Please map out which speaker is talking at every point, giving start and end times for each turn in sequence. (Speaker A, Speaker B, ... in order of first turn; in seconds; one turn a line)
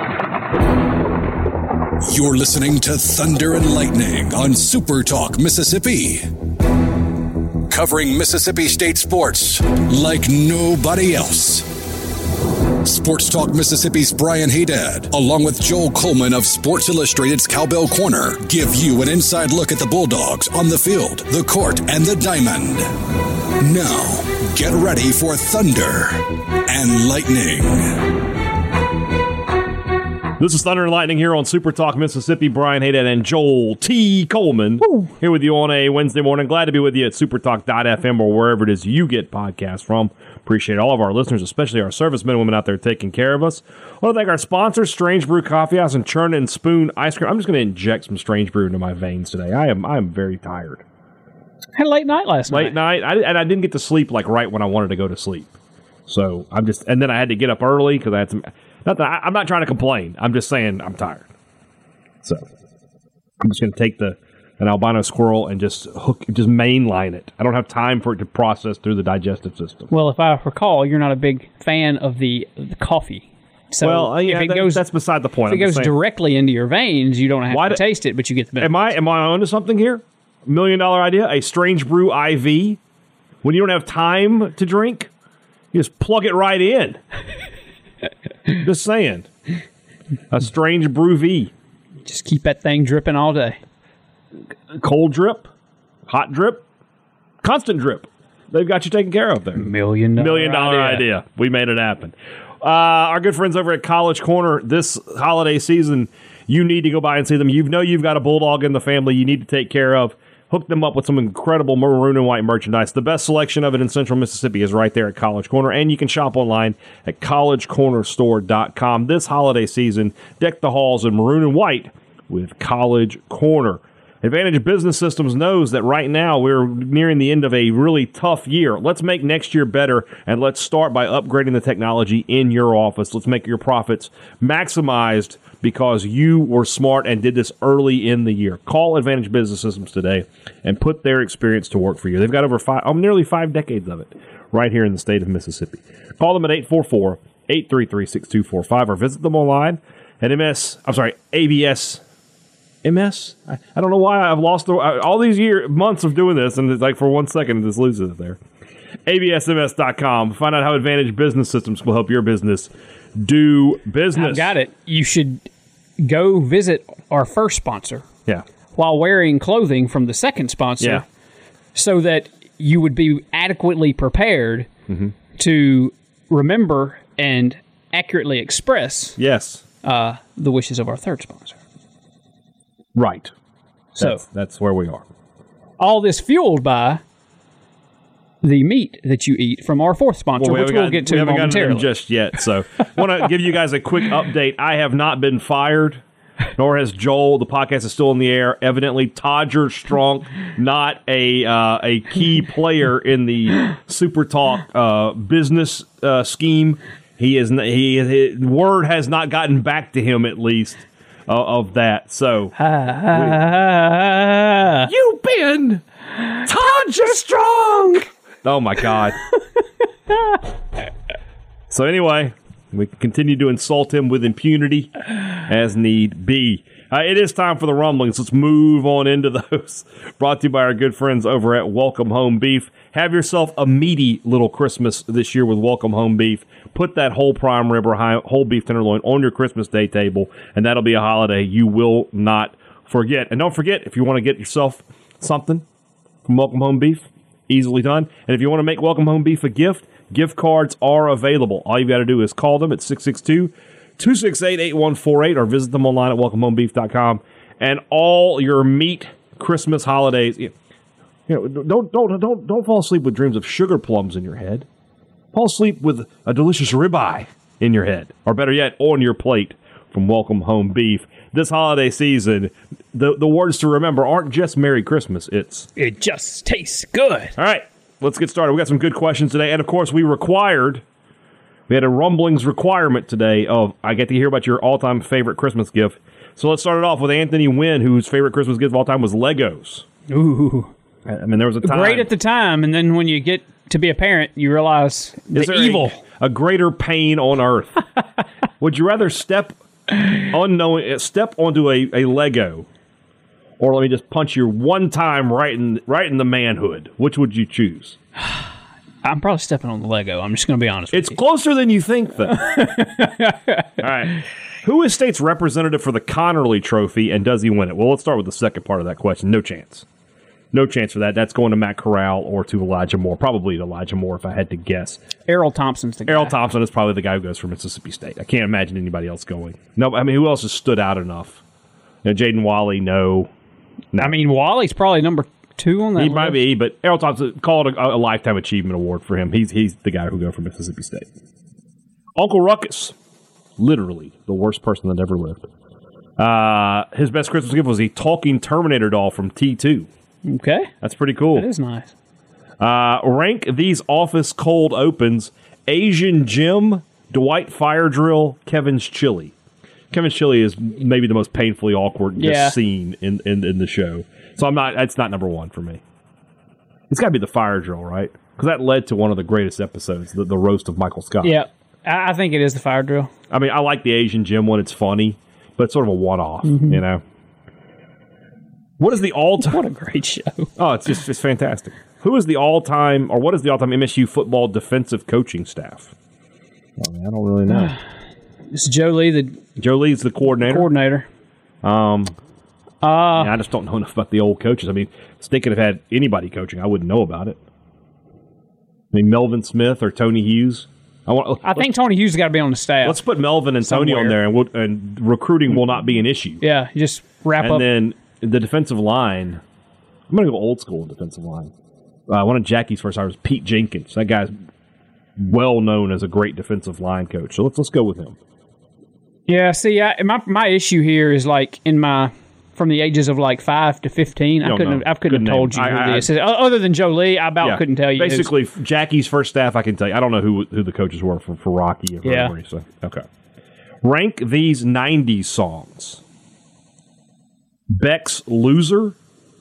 Speaker A: 2.0-6.3
Speaker A: 7.7-11.7
Speaker A: 12.8-22.9
Speaker A: 23.6-28.1
Speaker B: 30.4-50.8
Speaker C: 34.8-35.1
Speaker C: 51.8-52.8
Speaker B: 52.5-55.5
Speaker B: 56.1-61.3
Speaker B: 62.2-62.5
Speaker B: 63.4-69.9
Speaker C: 69.9-74.8
Speaker B: 73.8-75.9
Speaker C: 75.5-78.9
Speaker B: 77.5-77.8
Speaker B: 78.6-82.8
Speaker B: 83.4-85.1
Speaker B: 85.7-87.0
Speaker B: 88.5-89.3
Speaker B: 90.3-91.5
Speaker C: 92.0-93.6
Speaker B: 94.7-95.5
Speaker B: 96.1-96.6
Speaker B: 97.4-152.0
Speaker C: 99.6-101.1
Speaker B: 152.8-158.4
Speaker B: 159.1-164.5
Speaker C: 164.1-165.5
Speaker C: 166.0-168.1
Speaker C: 168.7-171.0
Speaker C: 171.7-174.7
Speaker B: 174.9-175.1
Speaker C: 175.4-179.2
Speaker B: 179.2-179.6
Speaker C: 179.8-181.6
Speaker B: 182.9-183.3
Speaker B: 183.9-185.0
Speaker C: 185.8-187.0
Speaker C: 188.4-191.9
Speaker B: 190.4-196.0
Speaker B: 196.6-212.5
Speaker C: 212.6-214.9
Speaker B: 213.1-213.4
Speaker B: 214.9-215.8
Speaker B: 216.4-219.2
Speaker B: 221.7-245.6
Speaker B: 246.2-260.5
Speaker B: 261.3-264.7
Speaker B: 265.3-275.7
Speaker C: 275.8-277.3
Speaker B: 277.4-280.8
Speaker B: 281.7-289.9
Speaker C: 290.1-290.7
Speaker B: 291.1-292.1
Speaker C: 291.6-296.0
Speaker B: 295.3-297.9
Speaker B: 298.6-302.7
Speaker B: 303.6-308.0
Speaker C: 309.0-311.2
Speaker B: 310.9-312.6
Speaker C: 312.4-313.7
Speaker B: 313.8-319.8
Speaker B: 320.5-325.0
Speaker C: 325.3-326.3
Speaker B: 326.1-331.4
Speaker B: 332.0-333.3
Speaker C: 334.0-336.4
Speaker B: 336.0-341.1
Speaker B: 342.2-342.9
Speaker B: 343.6-345.5
Speaker B: 346.2-349.9
Speaker C: 350.3-350.7
Speaker B: 350.8-351.5
Speaker C: 351.3-351.9
Speaker B: 352.6-359.3
Speaker B: 359.9-365.8
Speaker C: 362.2-362.6
Speaker B: 366.9-371.4
Speaker C: 371.2-373.1
Speaker B: 373.3-377.0
Speaker C: 376.5-376.8
Speaker B: 378.8-379.6
Speaker C: 379.4-380.5
Speaker B: 380.6-385.9
Speaker B: 386.8-387.8
Speaker C: 388.5-389.4
Speaker B: 389.6-390.7
Speaker C: 390.5-391.1
Speaker B: 391.6-392.1
Speaker C: 392.8-393.3
Speaker B: 393.1-397.4
Speaker B: 398.9-401.7
Speaker C: 401.4-403.0
Speaker B: 402.8-406.4
Speaker C: 403.6-404.1
Speaker C: 406.4-407.7
Speaker B: 407.4-409.4
Speaker B: 410.1-411.5
Speaker B: 412.1-414.3
Speaker B: 415.2-418.1
Speaker C: 419.3-428.3
Speaker B: 424.4-426.1
Speaker B: 427.4-433.0
Speaker C: 432.0-432.3
Speaker B: 433.8-436.0
Speaker B: 437.7-438.9